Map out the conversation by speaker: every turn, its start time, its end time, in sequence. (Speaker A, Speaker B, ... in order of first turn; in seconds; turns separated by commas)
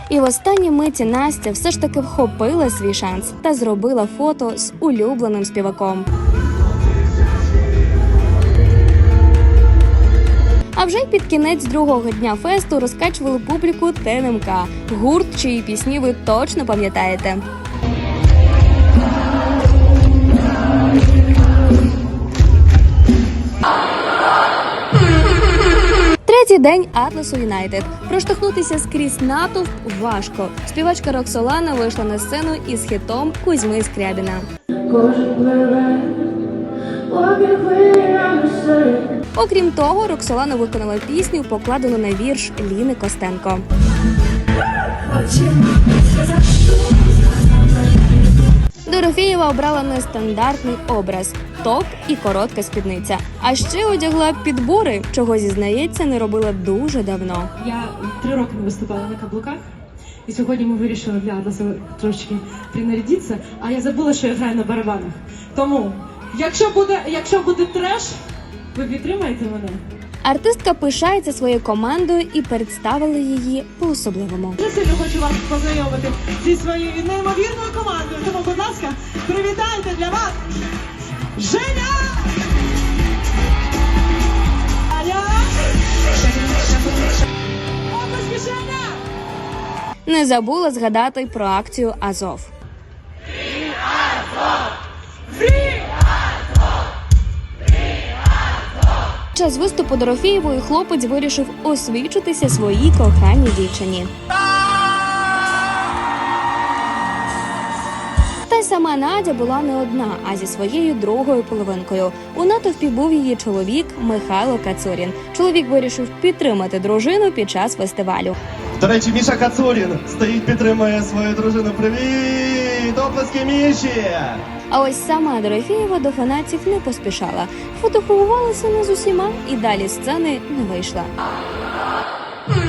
Speaker A: 0.1-6.1, Speaker A: 10.8-17.4, Speaker A: 26.2-34.5, Speaker A: 39.3-43.6, Speaker A: 48.9-57.5, Speaker B: 57.6-59.6, Speaker B: 60.3-68.1, Speaker B: 68.7-69.8, Speaker A: 70.2-74.6, Speaker B: 74.6-80.3, Speaker B: 81.4-82.2, Speaker B: 84.9-85.4, Speaker B: 87.9-88.9, Speaker A: 90.1-92.5, Speaker A: 99.3-104.1, Speaker A: 108.5-118.3, Speaker C: 118.8-124.4, Speaker A: 124.7-131.1